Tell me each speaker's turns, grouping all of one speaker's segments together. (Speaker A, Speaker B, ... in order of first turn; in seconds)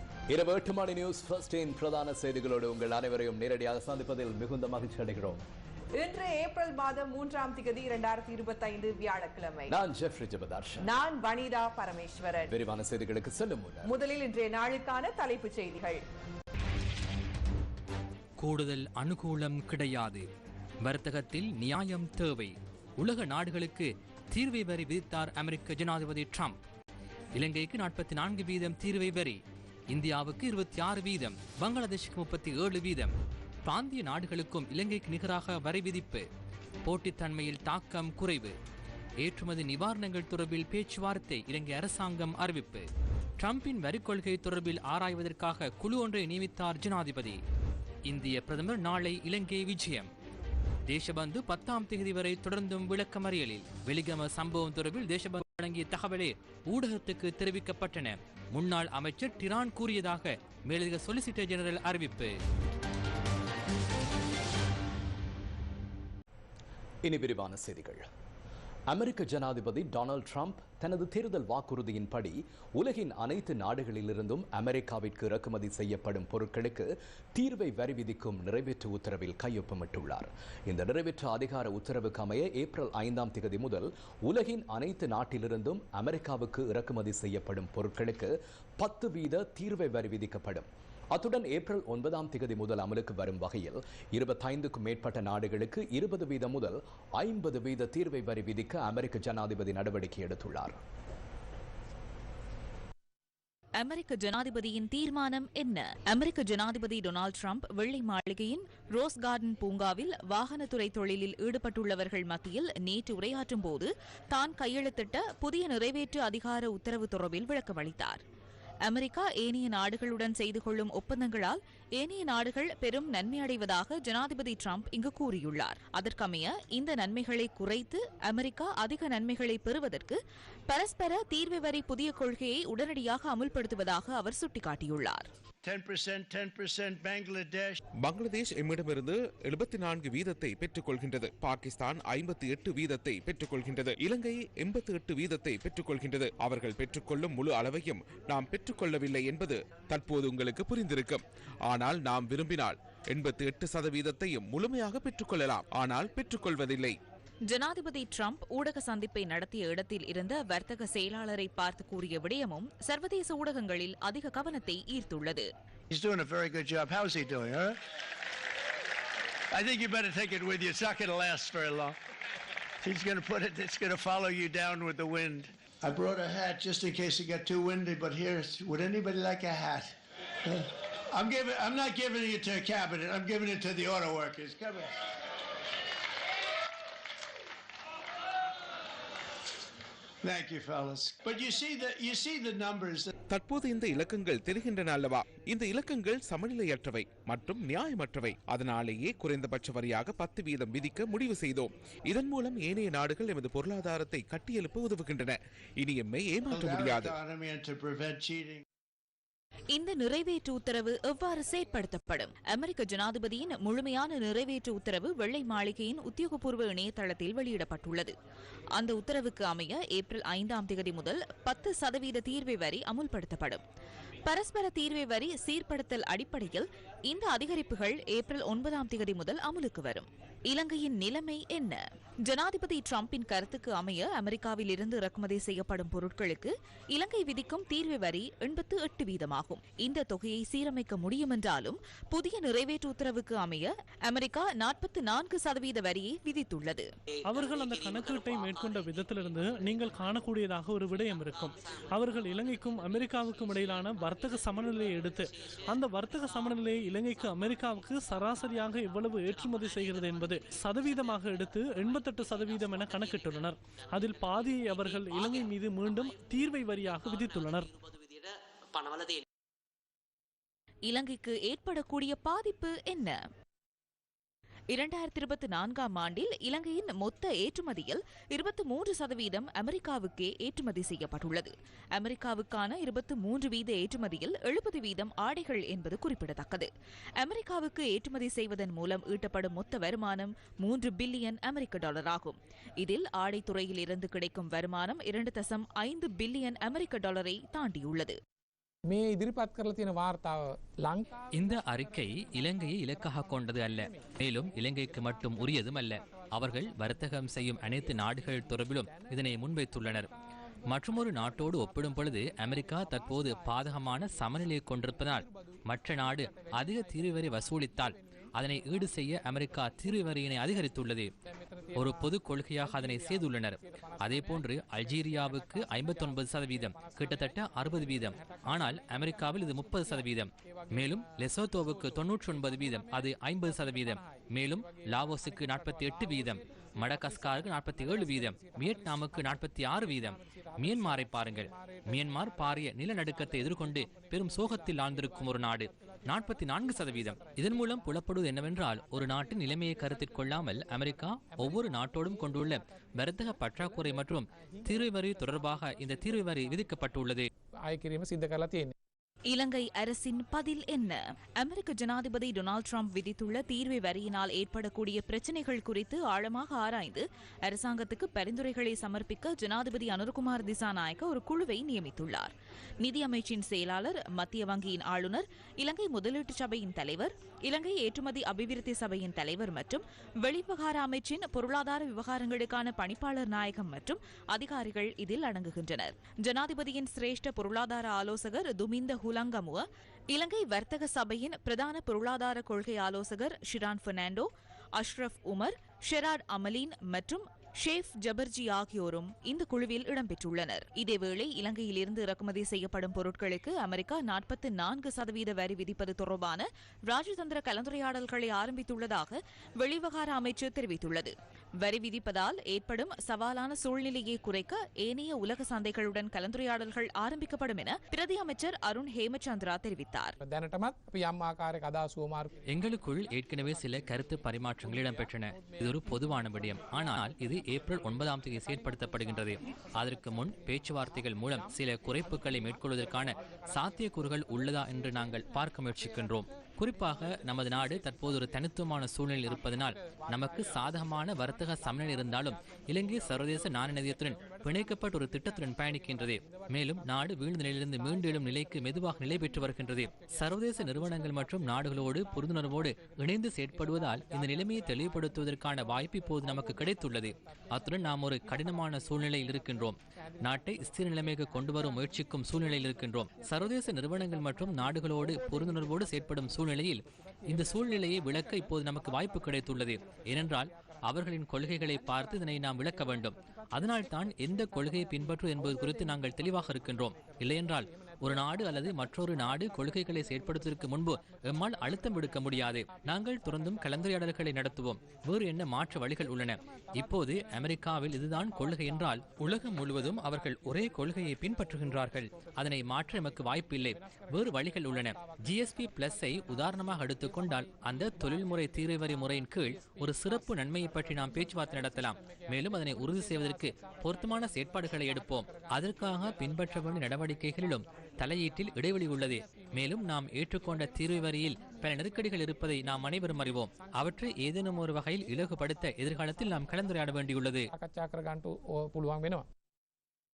Speaker A: 0.3-5.4, 9.7-10.8, 12.5-13.9, 67.0-68.0, 68.9-100.8
Speaker B: 6.0-9.7, 10.8-12.5, 13.8-16.0
Speaker C: 18.4-20.3, 20.8-26.6, 27.4-29.4, 29.9-33.1, 33.6-36.3, 36.8-38.5, 39.2-42.9, 43.4-47.4, 48.1-50.1, 50.9-62.3, 301.4-310.1, 310.7-321.1, 321.8-357.3, 422.5-517.5
Speaker D: 103.8-118.2, 118.8-130.2, 130.7-135.3, 157.5-165.5, 209.7-218.1, 218.8-223.6, 224.2-246.9, 270.9-273.2, 274.7-298.2, 359.3-420.2
Speaker E: 135.6-137.8, 165.9-167.8, 169.5-172.0, 172.8-185.0, 190.2-193.1, 206.5-208.6
Speaker F: 138.0-157.0, 193.3-207.1
Speaker G: 247.3-267.7
Speaker H: 298.9-301.1, 357.7-358.7, 420.2-422.3, 517.5-519.2